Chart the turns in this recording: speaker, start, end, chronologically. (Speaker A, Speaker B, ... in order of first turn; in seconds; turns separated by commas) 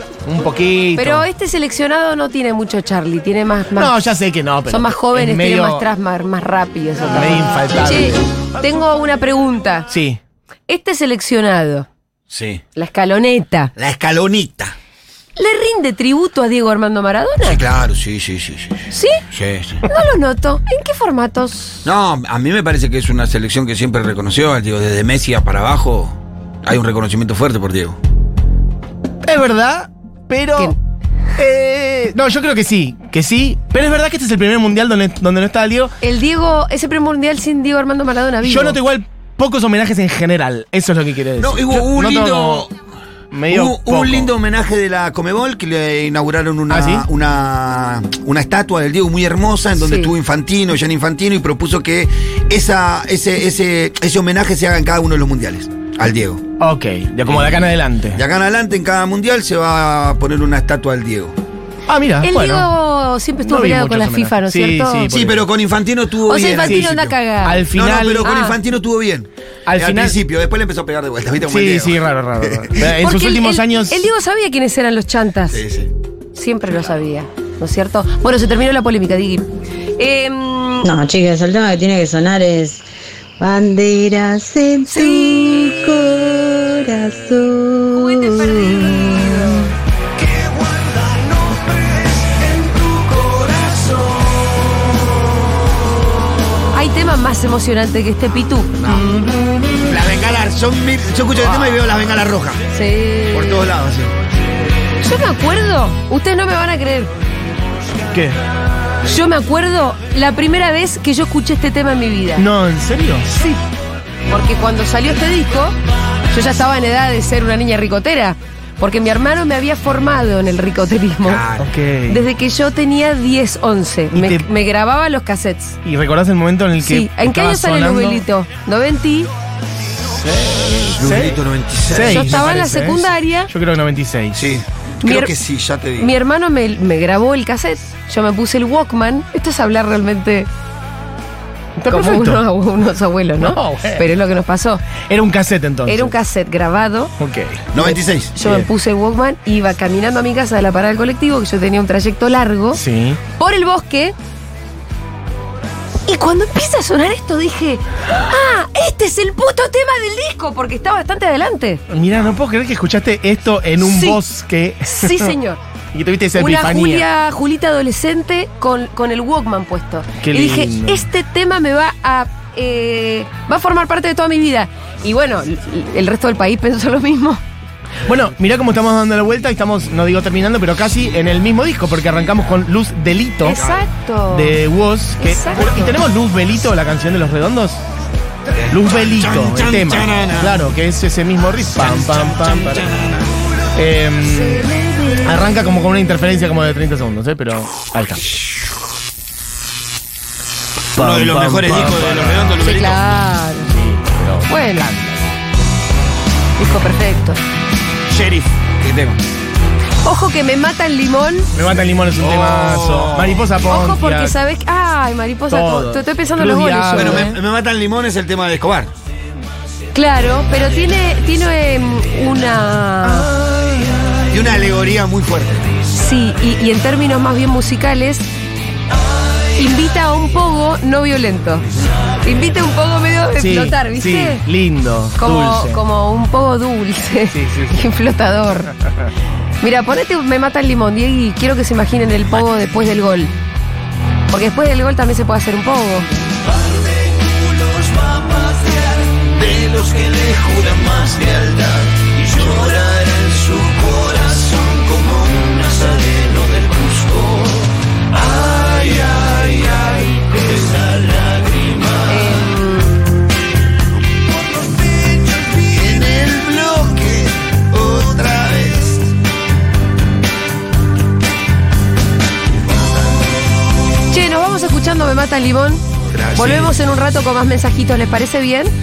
Speaker A: 0.2-1.3, Speaker B: 1.0-4.0, Speaker A: 3.8-5.8, Speaker B: 4.7-9.9, Speaker A: 7.1-8.3, Speaker A: 9.9-10.2, Speaker B: 10.7-11.9, Speaker C: 12.3-12.6, Speaker B: 12.8-13.7, Speaker C: 13.8-14.8, Speaker B: 15.4-17.6, Speaker C: 17.4-19.9, Speaker B: 18.9-19.2, Speaker B: 19.9-21.8, Speaker C: 21.9-28.0, Speaker A: 29.2-30.8, Speaker A: 31.4-35.9, Speaker B: 36.0-38.8, Speaker A: 38.4-42.7, Speaker C: 41.4-42.7, Speaker A: 43.3-44.3, Speaker C: 43.5-56.4, Speaker A: 46.7-47.1, Speaker B: 49.8-50.1, Speaker A: 56.6-58.2, Speaker C: 57.3-61.4, Speaker A: 61.9-62.7, Speaker B: 62.2-65.1, Speaker A: 63.4-65.5, Speaker C: 65.1-67.2, Speaker B: 66.3-67.7, Speaker A: 66.6-68.3, Speaker C: 67.7-72.7, Speaker B: 68.2-68.6, Speaker A: 69.7-70.2, Speaker A: 71.4-74.1, Speaker B: 73.0-75.6, Speaker C: 75.5-75.9, Speaker B: 76.3-79.5, Speaker B: 80.0-80.9, Speaker D: 80.8-82.8, Speaker D: 83.4-89.7, Speaker B: 84.9-85.4, Speaker B: 87.9-89.7, Speaker B: 96.7-99.0, Speaker C: 99.8-102.6, Speaker B: 102.7-103.7, Speaker C: 103.3-104.2, Speaker B: 105.0-107.1, Speaker A: 108.1-108.4, Speaker B: 109.0-112.5, Speaker A: 112.4-113.3, Speaker B: 113.4-113.6, Speaker B: 114.3-115.8, Speaker B: 116.3-121.4, Speaker C: 121.2-121.7, Speaker A: 121.6-122.3, Speaker B: 122.1-125.8, Speaker A: 124.1-124.5, Speaker A: 125.8-128.3, Speaker B: 126.8-129.3, Speaker A: 130.0-134.6, Speaker C: 130.9-132.5, Speaker B: 132.0-133.5, Speaker C: 134.4-136.1, Speaker B: 135.0-135.4, Speaker B: 136.0-140.5, Speaker A: 141.8-142.4, Speaker B: 141.9-144.8, Speaker A: 143.4-144.1, Speaker A: 145.1-146.2, Speaker B: 145.9-147.1, Speaker A: 147.2-147.7, Speaker C: 147.7-148.3, Speaker B: 147.8-152.8, Speaker A: 148.4-148.7, Speaker A: 152.7-153.2, Speaker B: 153.3-154.2, Speaker B: 156.1-161.8, Speaker A: 161.9-165.4, Speaker B: 163.8-164.2, Speaker B: 164.8-165.6, Speaker A: 165.9-167.1, Speaker B: 166.4-177.4, Speaker A: 170.2-171.1, Speaker A: 178.1-183.6, Speaker B: 183.4-184.6, Speaker C: 183.5-183.9, Speaker A: 184.3-187.9, Speaker B: 185.2-186.0, Speaker C: 188.5-190.6, Speaker A: 188.7-192.9, Speaker C: 191.8-193.3, Speaker A: 193.8-194.7, Speaker B: 194.3-195.3, Speaker A: 195.2-198.4, Speaker A: 200.9-202.6, Speaker C: 201.0-203.1, Speaker B: 202.6-203.7, Speaker A: 203.7-205.3, Speaker B: 204.5-204.9, Speaker B: 206.6-207.4, Speaker C: 208.1-209.2, Speaker B: 210.0-211.5, Speaker A: 211.5-214.4, Speaker C: 212.2-213.4, Speaker B: 213.7-217.4, Speaker A: 215.5-217.4, Speaker C: 216.9-218.9, Speaker B: 219.9-223.3, Speaker A: 223.1-223.6, Speaker C: 224.3-225.7, Speaker B: 225.9-228.3, Speaker B: 229.6-231.7, Speaker B: 232.2-234.4, Speaker A: 233.4-235.8, Speaker B: 235.2-238.7, Speaker A: 237.3-237.9, Speaker A: 238.8-239.1, Speaker B: 239.6-243.3, Speaker B: 244.3-246.1, Speaker E: 247.1-249.1, Speaker C: 249.4-251.6, Speaker E: 249.7-251.5, Speaker C: 252.3-252.7, Speaker E: 252.7-257.0, Speaker E: 258.3-262.0, Speaker B: 262.1-262.9, Speaker C: 265.7-269.0, Speaker B: 274.1-278.7, Speaker C: 276.1-276.8